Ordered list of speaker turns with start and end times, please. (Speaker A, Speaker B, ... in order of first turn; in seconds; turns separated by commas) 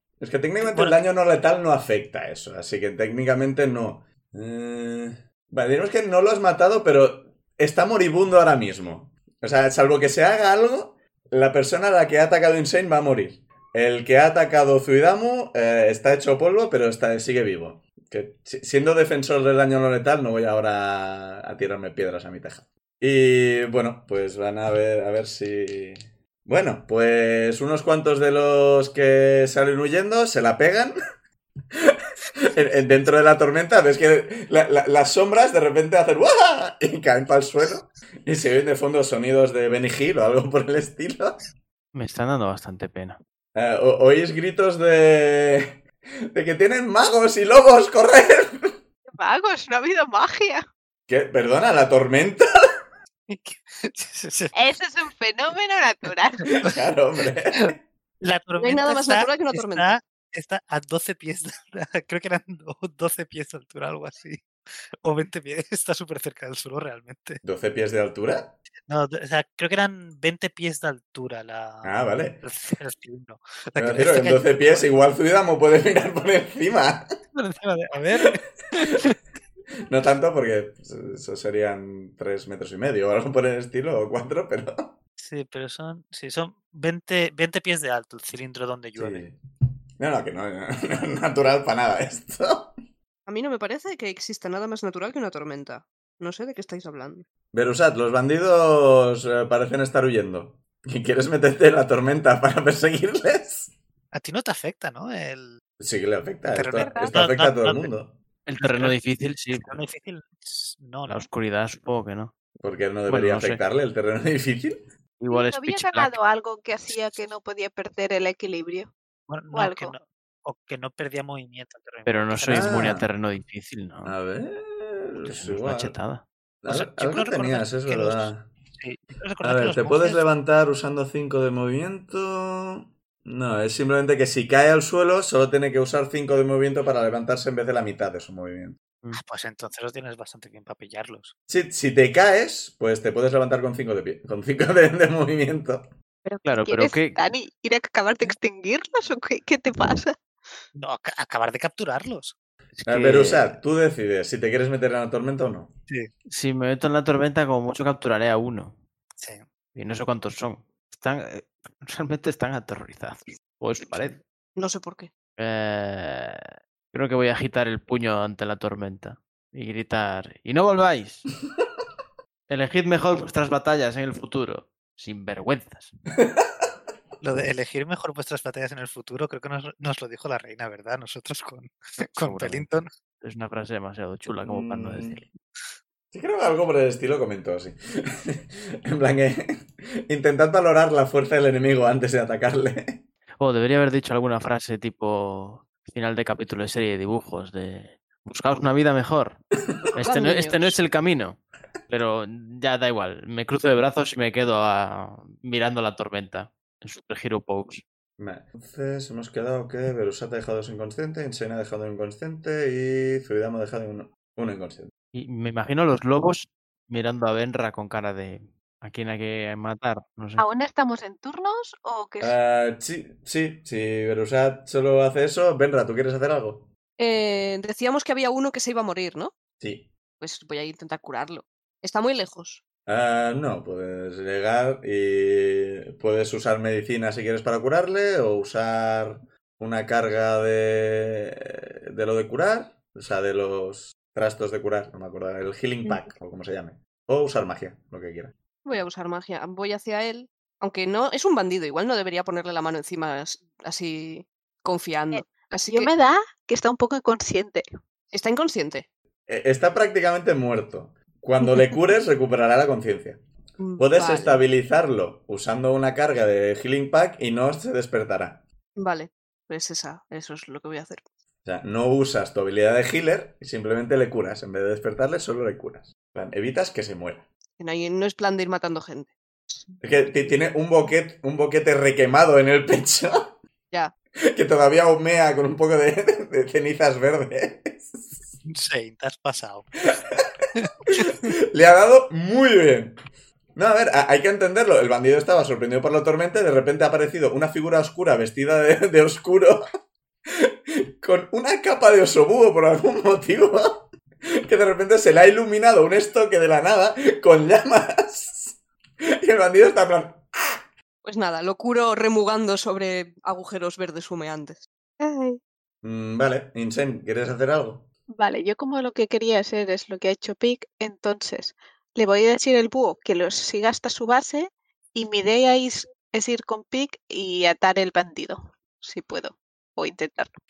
Speaker A: 0.2-31.0, Speaker B: 0.6-1.0, Speaker A: 31.7-41.4, Speaker C: 41.9-43.2, Speaker A: 43.5-45.8, Speaker A: 46.3-48.8, Speaker D: 49.2-50.6, Speaker A: 51.1-52.5, Speaker B: 53.3-54.5, Speaker D: 54.5-56.6, Speaker A: 56.6-57.8, Speaker B: 57.5-64.4, Speaker E: 58.6-59.9, Speaker B: 65.0-67.4, Speaker A: 67.4-68.5, Speaker B: 68.9-75.0, Speaker A: 71.8-72.4, Speaker A: 73.8-77.1, Speaker B: 77.3-79.2, Speaker A: 79.9-85.0, Speaker B: 85.2-89.2, Speaker A: 89.0-89.4, Speaker A: 90.0-92.8, Speaker E: 93.3-97.2, Speaker A: 97.5-103.7, Speaker B: 104.1-105.6, Speaker A: 105.8-108.2, Speaker B: 106.5-107.9, Speaker D: 106.8-107.1, Speaker C: 108.5-109.8, Speaker B: 108.6-109.0, Speaker B: 109.6-111.3, Speaker C: 111.1-112.3, Speaker A: 112.6-114.8, Speaker C: 113.1-113.6, Speaker C: 115.2-116.2, Speaker D: 115.3-118.9, Speaker B: 119.3-122.9, Speaker D: 119.5-119.9, Speaker C: 122.1-124.2, Speaker A: 122.5-123.1, Speaker A: 124.0-126.0, Speaker C: 125.2-126.2, Speaker A: 126.6-128.5, Speaker B: 126.7-130.2, Speaker A: 129.4-138.8, Speaker B: 139.1-141.3, Speaker A: 141.5-145.9, Speaker D: 146.3-150.2, Speaker C: 146.4-147.2, Speaker B: 150.8-152.3, Speaker C: 152.8-153.5, Speaker A: 152.9-155.8, Speaker C: 156.3-158.8, Speaker B: 159.2-159.5, Speaker C: 159.8-164.2, Speaker E: 164.6-165.1, Speaker C: 165.4-166.4, Speaker C: 166.9-171.2, Speaker C: 172.5-175.9, Speaker B: 177.2-182.9, Speaker C: 182.2-182.7, Speaker C: 183.2-185.3, Speaker A: 184.4-185.2, Speaker A: 186.1-193.0, Speaker C: 193.4-199.4, Speaker C: 199.9-207.8, Speaker E: 200.0-200.8, Speaker A: 208.2-214.9, Speaker C: 215.1-220.4, Speaker D: 220.4-222.3, Speaker A: 222.2-226.7, Speaker E: 227.0-229.3, Speaker A: 229.6-229.9, Speaker E: 230.2-232.6, Speaker A: 232.9-248.3, Speaker D: 245.9-246.1, Speaker E: 248.7-255.9, Speaker D: 255.1-257.6, Speaker E: 258.1-258.9, Speaker A: 259.3-263.2, Speaker E: 263.6-264.4, Speaker A: 263.8-268.4, Speaker E: 268.8-271.0, Speaker A: 271.4-277.3, Speaker E: 277.6-279.1, Speaker A: 279.8-283.4, Speaker A: 284.3-288.4, Speaker B: 288.5-289.7, Speaker B: 290.6-291.1, Speaker A: 291.1-293.0, Speaker A: 293.6-299.6, Speaker A: 300.3-303.9, Speaker A: 304.4-308.6, Speaker A: 309.2-310.6, Speaker E: 311.0-314.6, Speaker D: 315.0-315.4, Speaker A: 315.8-317.9, Speaker D: 318.2-330.4